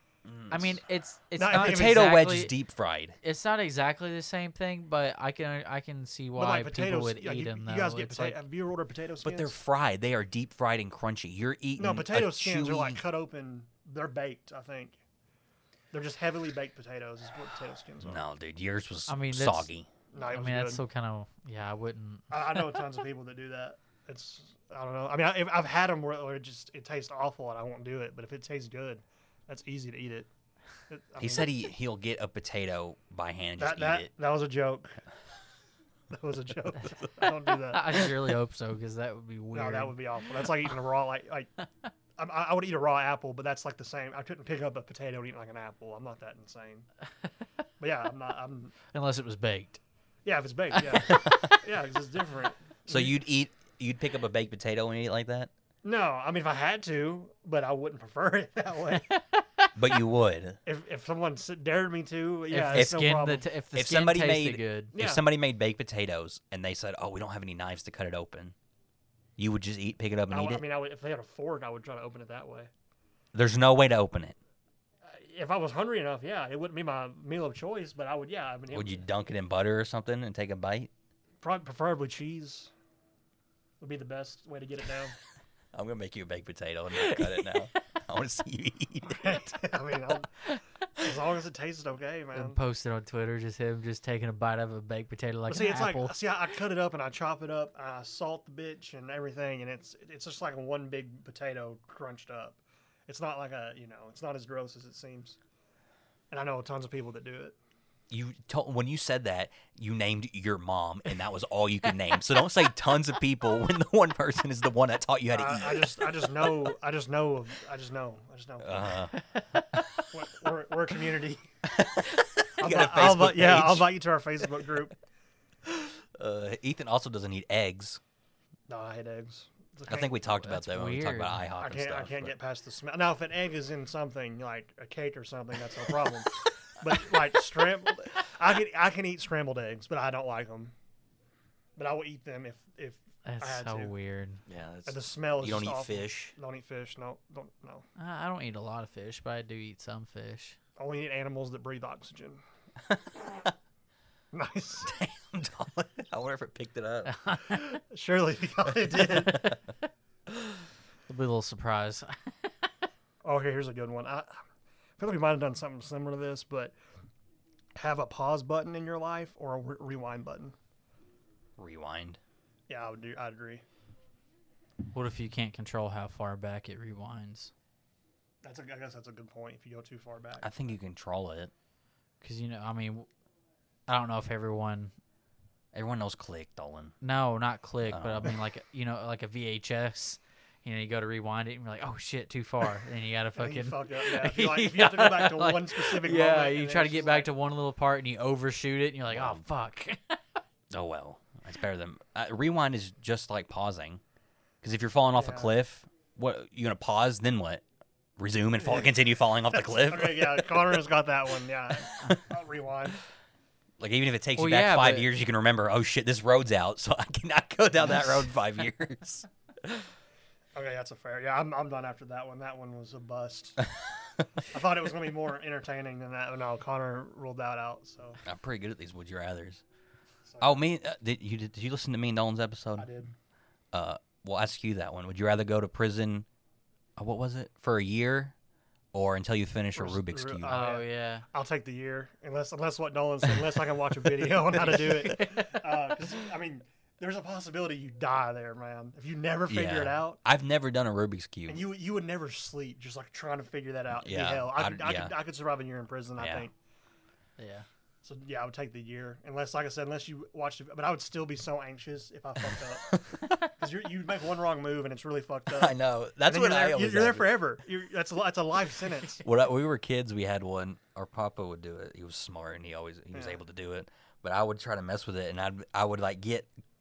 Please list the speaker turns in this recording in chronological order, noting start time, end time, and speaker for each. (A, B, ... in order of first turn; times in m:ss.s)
0:00.2-0:00.8 A
0:00.5-0:02.5 B
0:01.4-0:02.0 C
0:01.5-0:03.2 A
0:03.2-0:08.4 B
0:06.4-0:09.6 C
0:09.2-0:13.0 A
0:11.8-0:15.0 C
0:15.9-0:18.2 C
0:18.0-0:19.9 A
0:19.1-0:22.3 B
0:20.1-0:20.8 C
0:22.3-0:30.3 C
0:30.9-0:31.6 C
0:31.2-0:34.1 A
0:33.6-0:35.0 C
0:36.1-0:38.0 C
0:37.5-0:40.0 B
0:39.5-0:41.6 C
0:42.2-0:46.9 C
0:47.8-0:48.8 C
0:48.9-0:49.8 B
0:50.2-0:53.2 C
0:51.1-0:51.5 A
0:52.9-0:55.5 A
0:55.8-0:59.1 C
0:59.0-0:59.7 B
0:59.8-1:00.6 A
1:00.6-1:03.4 C
1:02.5-1:04.9 B
1:02.7-1:03.0 A
1:03.7-1:08.5 A
1:04.9-1:05.2 C
1:09.4-1:10.6 A
1:10.3-1:12.7 C
1:13.3-1:14.4 A
1:15.1-1:19.0 C
1:18.7-1:20.9 A
1:21.4-1:22.7 C
1:23.8-1:25.2 C
1:25.7-1:29.5 A
1:26.9-1:27.6 B
1:29.1-1:30.4 C
1:31.0-1:32.6 C
1:32.3-1:36.1 B
1:35.5-1:45.4 C
1:46.3-1:47.6 C
1:48.1-1:56.3 A
1:55.3-1:59.0 C
1:58.6-1:59.1 A
1:59.1-2:00.0 B
2:00.1-2:01.5 C
2:01.6-2:03.9 A
2:02.6-2:05.0 C
2:05.6-2:08.0 A
2:08.7-2:10.4 C
2:09.9-2:12.3 A
2:10.3-2:11.4 B
2:11.6-2:20.7 C
2:21.8-2:23.9 C
2:23.2-2:24.4 B
2:24.4-2:26.3 A
2:24.8-2:27.8 C
2:28.0-2:30.6 B
2:30.8-2:32.4 C
2:32.9-2:33.5 A
2:34.3-2:34.9 C
2:34.8-2:37.1 A
2:37.0-2:37.8 B
2:37.7-2:39.5 C
2:38.9-2:39.5 A
2:41.1-2:42.5 B
2:43.2-2:44.4 C
2:45.0-2:46.7 C
2:47.8-2:50.5 C
2:51.6-2:52.2 A
2:52.7-2:53.6 C
2:54.9-2:57.5 B
2:58.4-3:00.4 C
3:00.4-3:01.5 A
3:02.2-3:03.1 B
3:03.9-3:04.9 B
3:05.7-3:07.0 A
3:07.0-3:20.4 B
3:07.9-3:08.3 A
3:13.4-3:17.3 C
3:19.1-3:19.4 A
3:20.7-3:24.0 A
3:24.6-3:27.6 A
3:25.2-3:25.5 C
3:28.2-3:30.8 A
3:28.6-3:33.0 C
3:33.8-3:39.8 A
3:34.4-3:35.1 B
3:40.5-3:43.7 C
3:43.8-3:44.2 A
3:44.4-3:48.2 C
3:48.2-3:49.6 A
3:50.2-3:50.6 C
3:50.4-3:52.9 A
3:52.8-3:53.1 C
3:53.7-3:56.2 A
3:57.0-3:58.3 A
3:58.9-4:00.6 A
3:59.7-4:10.2 C
4:00.5-4:01.2 B
4:04.6-4:05.3 A
4:09.5-4:11.6 A
4:11.5-4:16.5 C
4:14.0-4:15.1 A
4:16.2-4:16.5 A
4:17.4-4:17.6 B
4:18.0-4:29.2 C
4:22.9-4:23.4 A
4:25.5-4:27.5 A
4:29.2-4:36.5 A
4:33.1-4:33.4 C